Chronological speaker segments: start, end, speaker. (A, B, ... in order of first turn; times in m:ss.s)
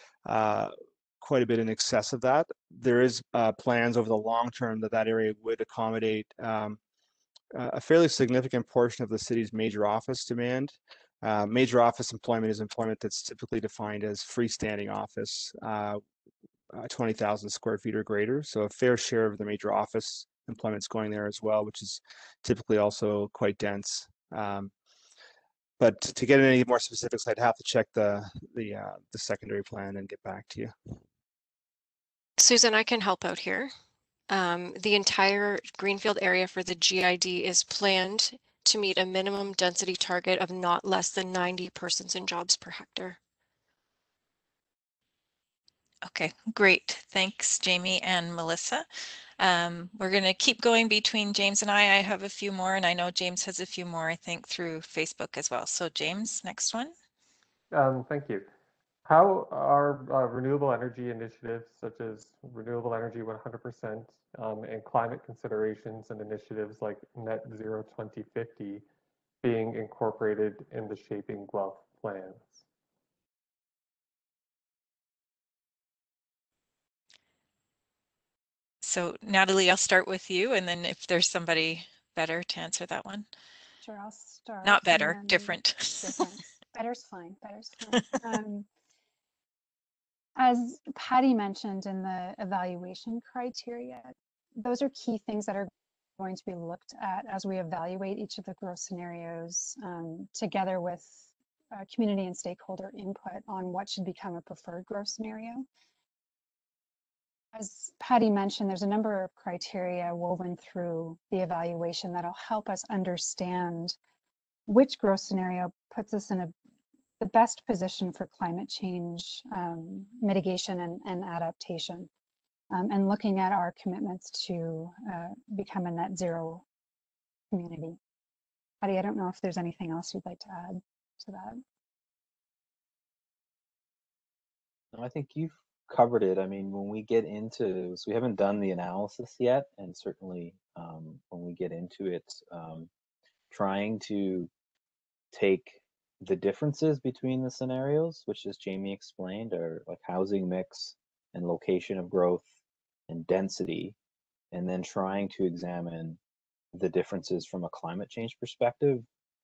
0:00.2-0:06.8 A
0:07.5-0:16.0 A
0:16.7-0:24.7 A
0:25.8-0:30.7 A
0:32.4-0:33.7 B
0:34.3-0:43.2 B
0:46.1-0:48.8 C
0:49.4-0:56.9 C
0:57.7-0:58.5 D
0:59.0-1:08.8 D
1:09.4-1:12.6 D
1:18.8-1:23.3 C
1:23.8-1:28.7 E
1:24.6-1:26.2 C
1:30.4-1:45.6 E
1:47.5-1:54.0 E
1:54.7-1:56.5 E
1:57.2-2:02.1 E
2:02.7-2:06.6 E
2:07.5-2:08.0 E
2:08.8-2:11.6 E
2:14.9-2:22.9 F
2:23.5-2:24.5 F
2:25.3-2:32.5 F
2:33.1-2:33.9 F
2:34.5-2:36.2 F
2:36.7-2:39.0 F